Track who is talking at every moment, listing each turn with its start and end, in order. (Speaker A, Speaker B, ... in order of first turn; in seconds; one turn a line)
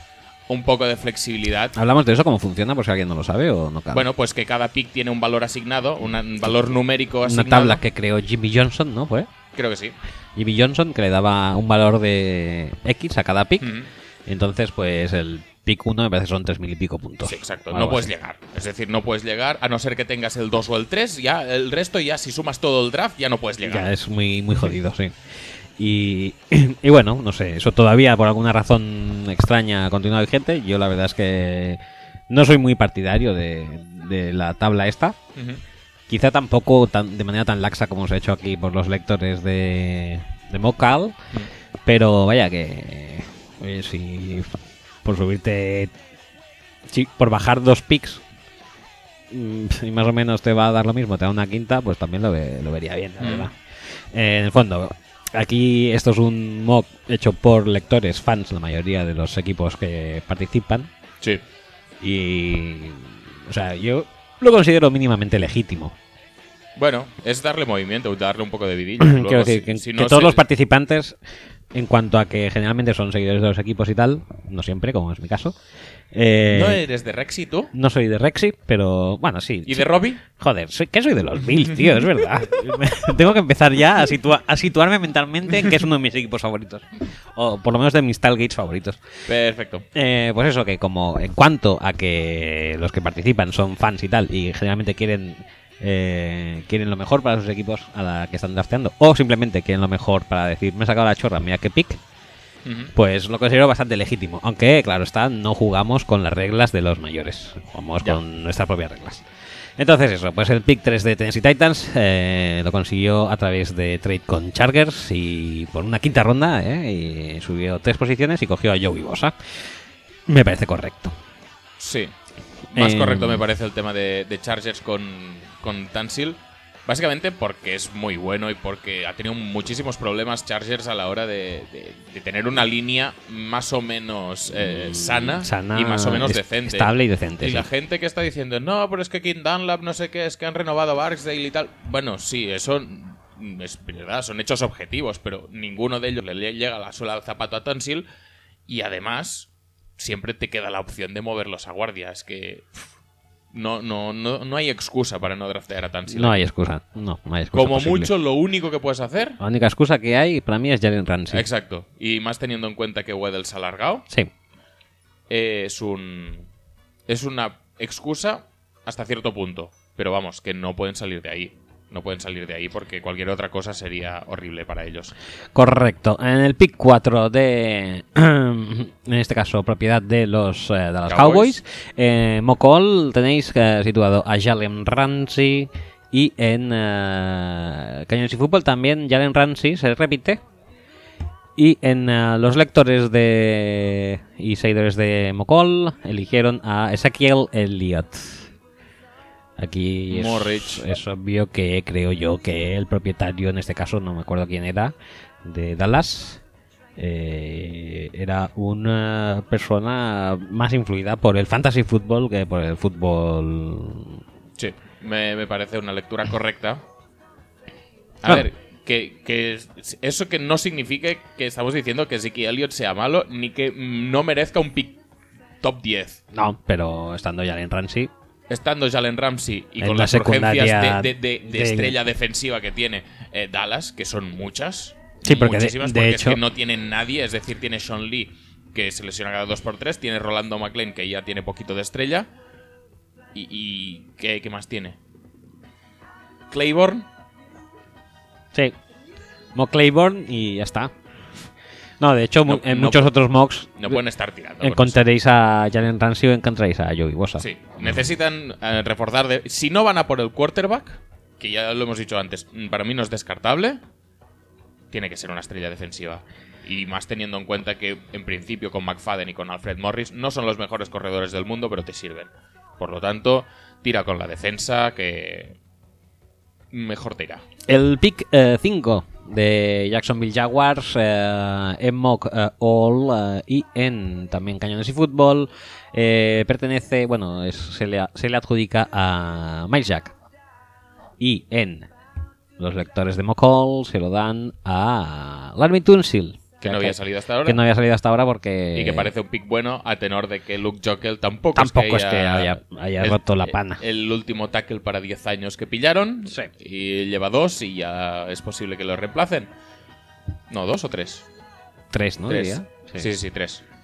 Speaker A: 0.5-1.7
Speaker B: 1.7-4.1
Speaker A: 3.9-7.8
Speaker B: 7.2-9.3
Speaker A: 9.5-9.9
Speaker B: 10.3-13.7
Speaker A: 13.6-13.9
Speaker B: 14.2-18.1
Speaker A: 17.2-23.9
Speaker B: 23.6-25.1
Speaker B: 25.8-35.2
Speaker A: 35.4-35.6
Speaker B: 36.1-41.2
Speaker B: 41.8-45.9
Speaker B: 46.9-48.2
Speaker B: 49.3-53.5
Speaker A: 53.2-53.5
Speaker B: 54.1-60.9
Speaker B: 62.0-65.9
Speaker A: 66.8-70.4
Speaker B: 69.0-71.2
Speaker B: 71.7-75.5
Speaker B: 76.1-76.8
Speaker A: 76.5-77.7
Speaker B: 77.7-89.0
Speaker A: 79.7-80.2
Speaker A: 89.2-89.8
Speaker B: 89.9-102.0
Speaker A: 102.6-102.9
Speaker B: 102.9-109.2
Speaker B: 109.8-119.3
Speaker B: 120.3-121.2
Speaker A: 121.8-122.1
Speaker A: 122.7-148.1
Speaker B: 122.7-123.4
Speaker B: 134.5-137.7
Speaker A: 148.7-152.7
Speaker A: 153.5-156.4
Speaker B: 156.1-158.1
Speaker A: 157.5-159.4
Speaker B: 159.4-161.5
Speaker A: 161.3-164.1
Speaker A: 165.3-166.5
Speaker A: 167.1-175.1
Speaker B: 175.5-190.4
Speaker A: 181.1-181.6
Speaker B: 191.6-198.5
Speaker B: 199.6-206.4
Speaker A: 200.1-200.8
Speaker B: 207.0-214.2
Speaker A: 214.6-216.8
Speaker A: 218.2-225.0
Speaker A: 225.6-226.2
Speaker B: 226.3-228.1
Speaker A: 228.5-242.3
Speaker B: 229.8-231.9
Speaker B: 235.2-236.4
Speaker A: 243.3-245.0
Speaker A: 246.5-247.1
Speaker B: 249.5-250.9
Speaker B: 252.0-254.0
Speaker A: 252.4-253.1
Speaker A: 253.8-255.0
Speaker B: 254.6-258.0
Speaker A: 257.4-263.8
Speaker A: 264.9-275.6
Speaker A: 276.7-277.4
Speaker B: 277.7-290.1
Speaker B: 291.2-291.9
Speaker B: 292.6-299.1
Speaker A: 296.6-297.6
Speaker A: 298.7-309.5
Speaker B: 301.5-303.8
Speaker A: 310.5-311.2
Speaker B: 311.9-313.1
Speaker A: 312.3-313.6